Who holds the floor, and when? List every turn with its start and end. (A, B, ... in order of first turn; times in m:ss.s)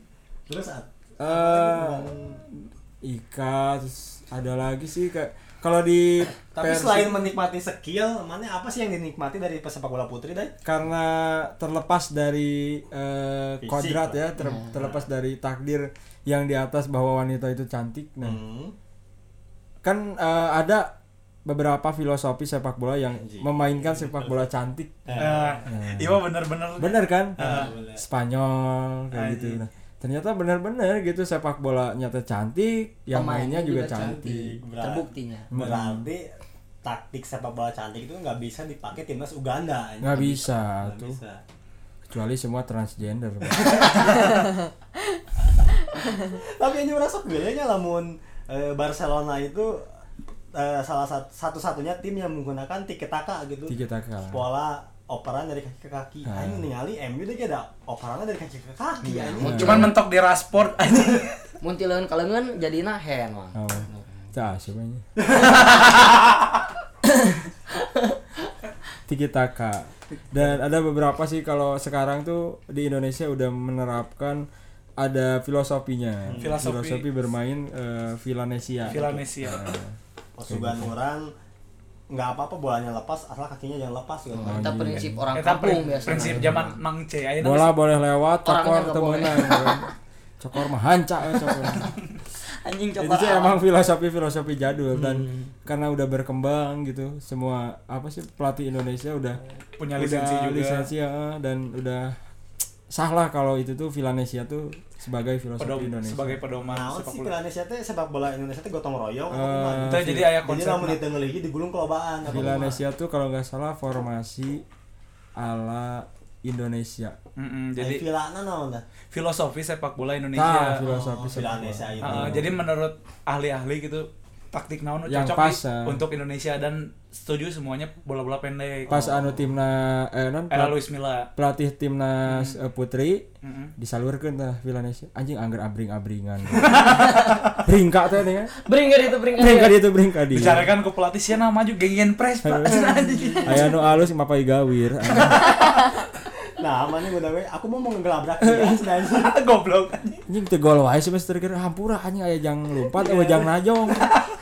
0:00.5-0:02.4 A
0:01.2-0:02.1 B
0:03.0-0:07.2 B
0:06.5-0:10.5 A
0:10.6-0:18.4 B
0:13.6-0:14.2 A
0:14.4-0:14.7 C
0:14.8-0:15.0 A
0:18.2-0:18.7 A
0:19.8-0:20.9 B
0:21.4-0:26.2 B
0:23.2-0:24.4 A
0:25.0-0:25.7 A
0:25.2-0:27.7 D
0:26.8-0:34.6 B
0:27.4-0:28.0 A
0:29.1-0:29.6 D
0:33.1-0:35.5 C
0:33.9-0:36.3 A
0:35.5-0:36.1 B
0:36.8-0:41.4 A
0:40.0-0:41.2 B
0:42.1-0:44.1 B
0:43.4-0:44.5 A
0:46.2-0:49.8 A
0:50.5-0:53.8 A
0:53.7-0:54.4 B
0:54.3-0:59.9 A
0:56.2-0:56.7 B
0:59.0-0:59.9 C
0:59.4-0:59.9 B
0:59.4-1:01.4 D
1:01.6-1:04.0 C
1:03.5-1:05.0 B
1:05.3-1:06.1 D
1:09.1-1:14.4 B
1:15.0-1:20.9 B
1:16.2-1:16.6 A
1:16.4-1:17.1 D
1:18.9-1:19.2 A
1:18.9-1:19.6 D
1:20.4-1:21.3 A
1:22.1-1:25.0 A
1:24.4-1:25.3 B
1:24.4-1:26.7 C
1:25.3-1:27.7 D
1:26.1-1:26.7 B
1:27.4-1:29.9 B
1:28.4-1:29.8 C
1:30.4-1:31.9 B
1:31.8-1:32.0 D
1:32.5-1:33.6 C
1:33.0-1:39.4 B
1:35.0-1:35.5 C
1:39.8-1:40.9 D
1:39.9-1:42.2 B
1:42.9-1:46.4 B
1:45.6-1:47.4 D
1:46.7-1:52.8 A
1:49.3-1:50.4 B
1:49.8-1:51.0 D
1:52.3-1:54.6 B
1:55.4-1:57.2 B
1:57.4-1:58.0 D
1:57.8-1:58.8 A
1:59.1-2:00.8 D
2:00.3-2:02.5 B
2:00.8-2:02.6 A
2:02.0-2:09.0 D
2:05.1-2:06.0 B
2:08.9-2:09.3 A
2:08.9-2:10.8 B
2:10.5-2:11.3 D
2:11.4-2:13.3 B
2:12.2-2:12.5 D
2:13.4-2:13.7 D
2:13.8-2:18.6 B
2:16.6-2:17.5 D
2:16.9-2:17.4 C
2:18.6-2:19.8 C
2:19.3-2:20.7 B
2:20.3-2:23.7 D
2:22.4-2:25.5 B
2:22.7-2:24.0 A
2:26.6-2:29.3 A
2:28.4-2:28.8 B
2:29.1-2:30.2 D
2:30.3-2:34.2 B
2:33.0-2:34.2 A